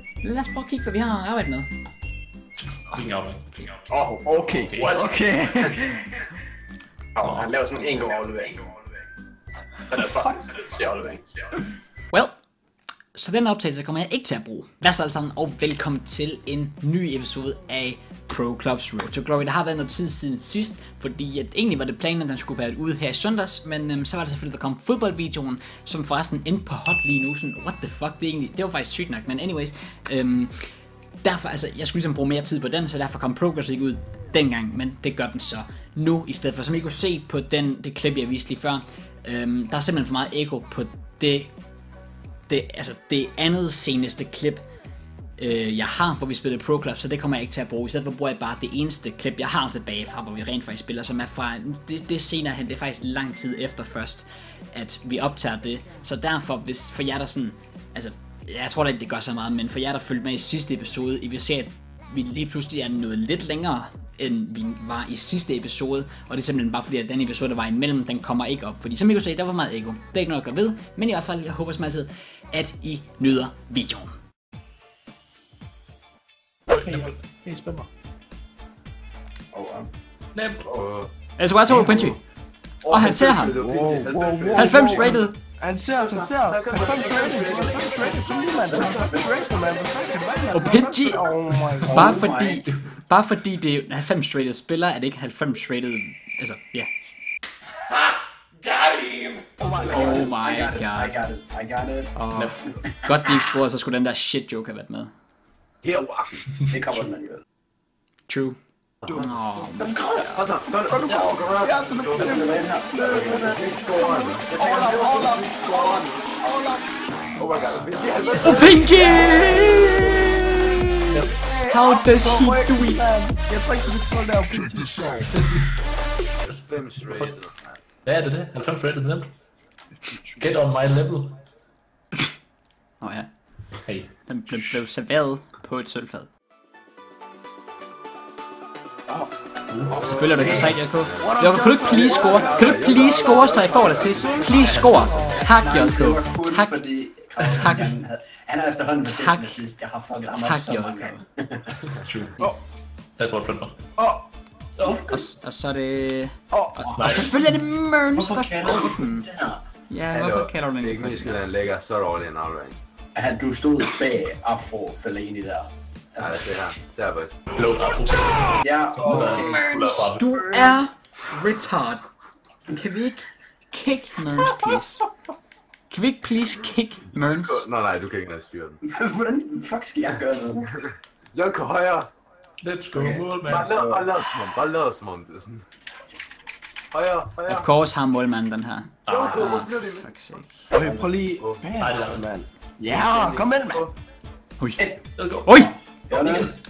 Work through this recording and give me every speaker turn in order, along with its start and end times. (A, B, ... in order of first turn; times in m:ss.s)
0:00.2-0:01.7 A
0:02.6-0:03.9 B
0:03.9-0:06.2 C
0:04.6-0:05.1 B
0:07.2-0:08.6 D
0:07.2-0:07.5 B
0:09.9-0:11.2 D
0:12.1-0:12.4 A
0:13.2-0:30.7 A
0:31.2-0:41.5 A
0:42.5-0:44.6 A
0:45.4-1:14.1 A
1:16.7-1:17.9 B
1:19.5-1:19.9 D
1:20.4-1:20.7 B
1:20.7-1:21.1 E
1:21.4-1:22.2 A
1:22.8-1:25.2 E
1:22.9-1:23.6 A
1:23.5-1:32.0 C
1:24.5-1:25.4 A
1:26.0-1:28.9 E
1:28.7-1:29.2 D
1:30.5-1:31.3 A
1:31.6-1:32.1 B
1:31.8-1:36.9 A
1:31.9-1:32.6 D
1:39.6-1:40.3 C
1:39.8-1:42.1 D
1:39.9-1:41.2 A
1:42.2-1:45.1 A
1:42.4-1:42.6 B
1:42.7-1:43.1 D
1:45.8-1:46.5 E
1:46.7-1:47.4 D
1:48.3-1:48.6 A
1:49.0-1:49.3 E
1:49.1-1:50.3 A
1:49.8-1:50.5 D
1:50.2-1:52.4 E
1:50.8-1:56.9 C
1:52.2-1:55.7 D
1:53.1-1:54.5 E
1:55.5-1:56.0 E
1:57.4-2:00.1 E
1:58.2-1:59.7 C
1:58.4-2:00.8 A
2:01.1-2:01.4 B
2:01.4-2:05.3 C
2:01.7-2:03.0 A
2:06.4-2:07.4 B
2:06.5-2:07.8 E
2:08.0-2:09.3 B
2:10.0-2:10.4 C
2:10.4-2:11.4 B
2:13.0-2:13.3 A
2:13.9-2:14.1 B
2:14.2-2:16.3 A
2:19.8-2:24.7 E
2:19.9-2:25.5 C
2:20.0-2:26.8 A
2:24.5-2:25.3 B
2:25.3-2:31.7 D
2:27.4-2:27.9 A
2:29.0-2:29.6 A
2:30.4-2:31.2 A
2:31.8-2:32.4 B
2:33.2-2:33.8 B
2:34.0-2:34.3 C
2:34.8-2:35.3 D
2:35.1-2:39.3 A
2:36.5-2:36.8 C
2:36.8-2:37.2 D
2:37.0-2:37.3 B
2:38.1-2:39.6 D
2:39.9-2:41.5 A
2:40.1-2:42.8 E
2:43.2-2:46.7 D
2:46.2-2:47.4 E
2:47.5-2:50.2 B
2:48.6-2:49.5 D
2:49.1-2:52.0 A
2:49.1-2:50.0 C
2:52.7-2:55.1 A
2:55.9-2:57.6 A
2:57.2-2:58.8 E
2:58.9-3:00.7 D
3:01.3-3:02.1 E
3:02.6-3:03.7 B
3:02.9-3:04.1 D
3:03.4-3:05.6 E
3:06.9-3:07.7 E
3:07.5-3:10.7 A
3:09.0-3:09.5 B
3:09.1-3:10.1 E
3:10.7-3:13.9 C
3:10.8-3:11.2 D
3:11.4-3:11.6 E
3:11.8-3:12.3 B
3:12.9-3:13.9 E
3:14.6-3:14.9 A
3:15.2-3:16.6 B
3:15.5-3:15.7 A
3:15.6-3:16.5 D